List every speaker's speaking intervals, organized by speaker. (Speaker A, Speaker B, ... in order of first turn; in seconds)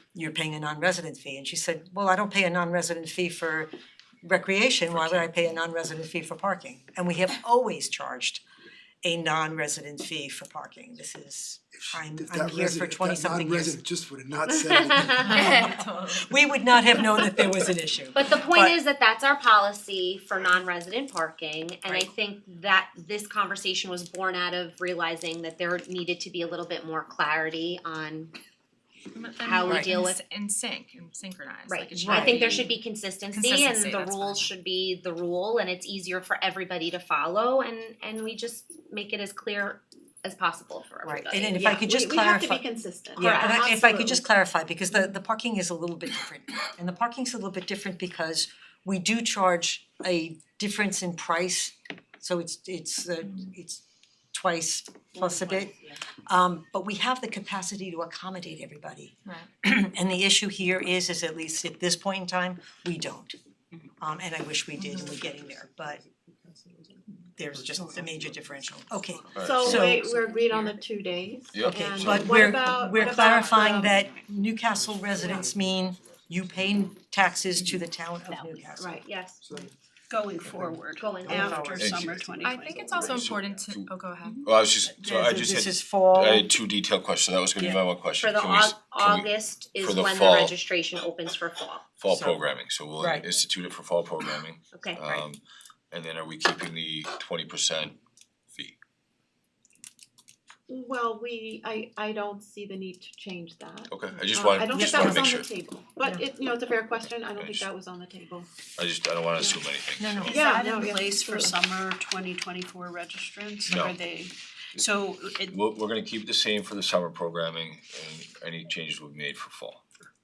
Speaker A: 0.1-3.7, 4.2-8.4, 9.0-13.8, 15.3-18.8, 29.6-29.9, 32.0-32.6, 41.0-42.6, 43.2-63.4, 64.0-66.0, 67.3-70.1, 71.9-79.0, 81.3-81.9, 85.2-86.5, 92.1-92.4, 93.0-93.3, 104.8-105.2, 110.0-110.4
Speaker B: 11.8-15.7, 66.6-67.0, 67.8-68.2, 75.1-76.4, 79.4-79.7, 80.5-81.7
Speaker C: 14.5-15.5, 18.1-28.3, 29.4-30.2, 31.7-41.9, 43.2-43.7, 55.2-55.8, 79.0-79.4, 81.0-81.8, 88.2-91.9, 94.7-95.2
Speaker D: 15.2-16.3, 29.1-32.7, 33.3-34.5, 64.8-65.1, 73.0-73.6, 82.4-84.4
Speaker E: 41.8-44.2, 69.4-74.0, 78.7-79.1, 100.7-108.5, 110.3-111.6
Speaker F: 69.3-70.0, 71.5-72.3, 81.7-83.9, 84.4-90.6, 92.0-98.0, 103.9-105.5, 107.3-107.7, 108.8-110.5, 113.7-114.0, 115.4-119.8
Speaker G: 80.1-83.3, 84.3-85.5, 110.2-115.6